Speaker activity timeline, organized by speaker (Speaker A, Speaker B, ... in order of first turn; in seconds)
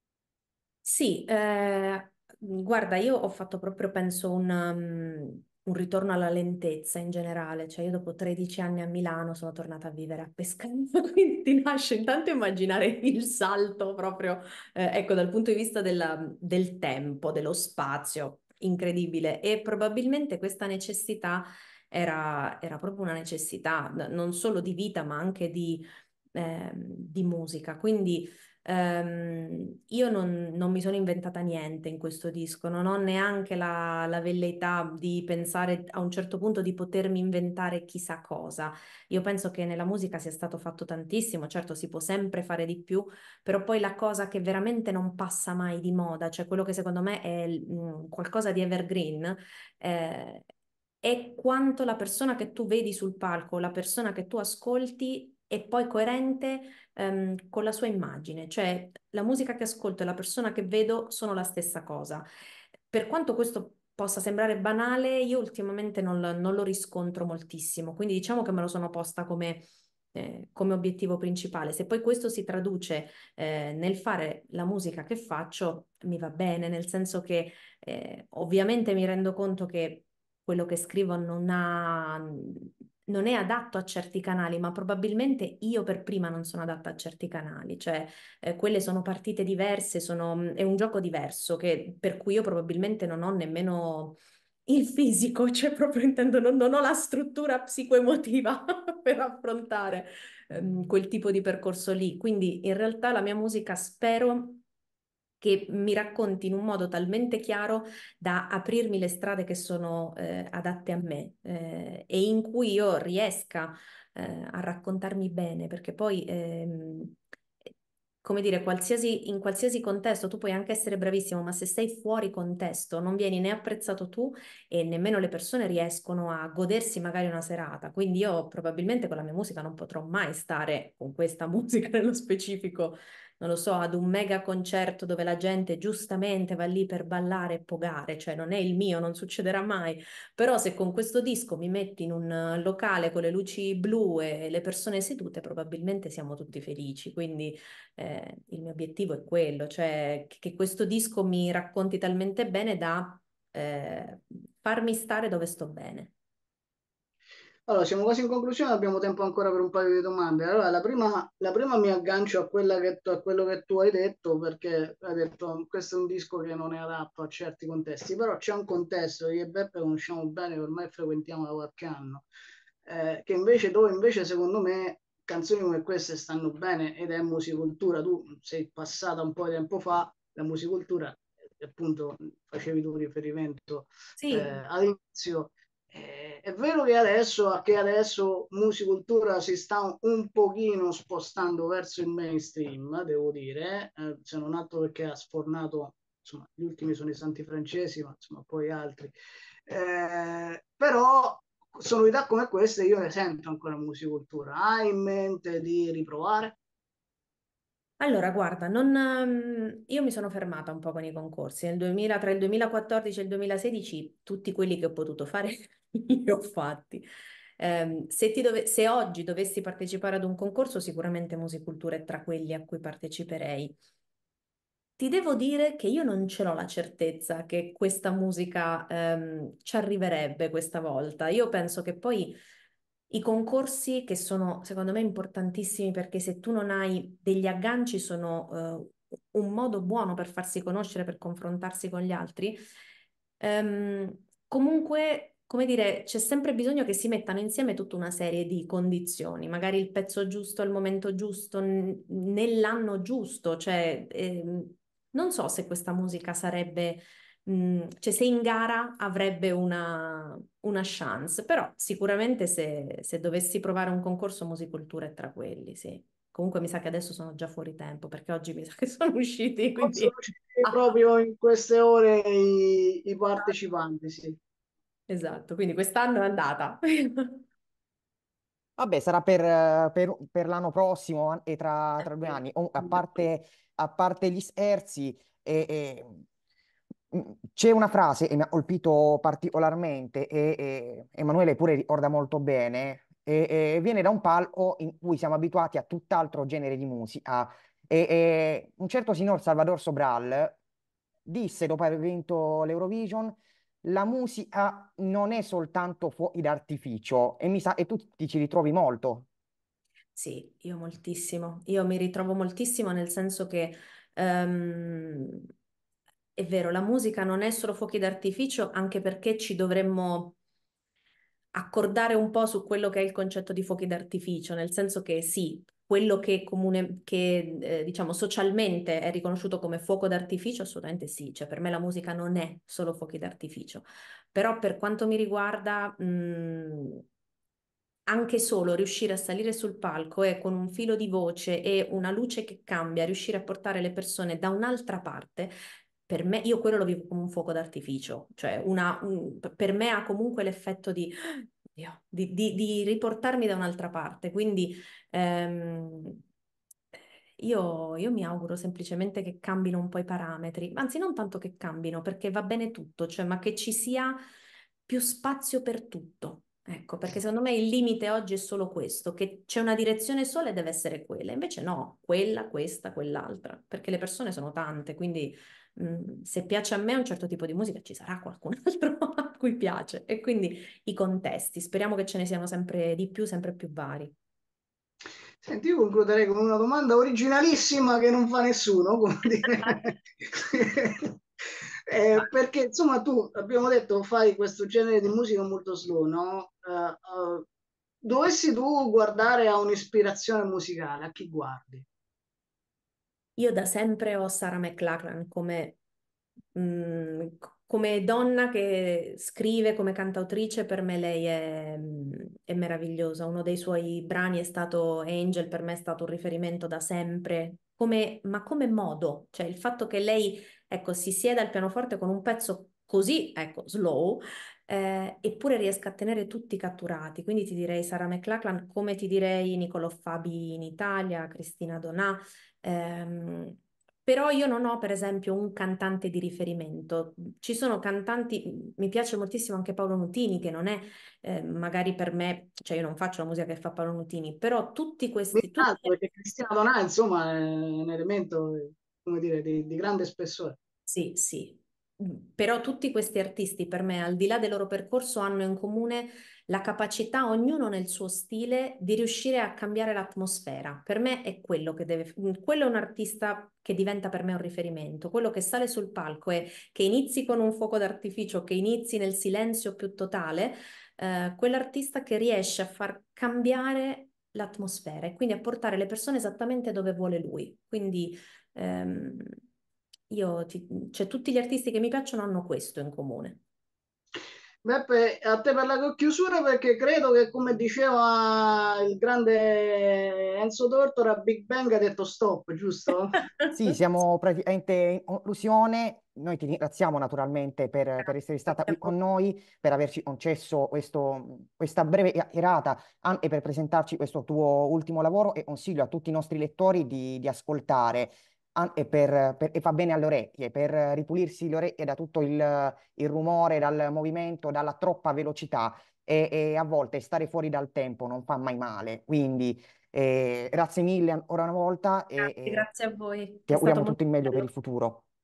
Speaker A: 0.8-25.8, 26.3-50.5, 51.0-62.2, 62.9-104.6, 105.4-117.2, 118.2-156.1, 184.2-184.6, 208.0-217.0, 217.6-223.8, 225.0-232.3, 233.1-242.6, 243.4-270.9, 275.1-277.4, 282.8-283.2, 310.1-315.5, 316.4-320.3, 321.5-337.0, 338.1-345.5, 346.1-356.2, 357.4-364.2, 364.9-384.1, 403.4-405.8, 406.5-446.0, 450.9-479.3, 480.1-483.4, 493.1-493.8, 498.0-498.9, 522.2-524.5
Speaker B: 157.7-172.2, 172.8-199.1, 199.7-206.6, 269.8-274.4, 385.4-391.1, 391.9-397.4, 398.0-401.9, 445.3-450.6, 484.6-493.2
Speaker C: 278.8-286.2, 287.1-300.6, 301.2-309.2, 493.5-522.7, 523.5-525.0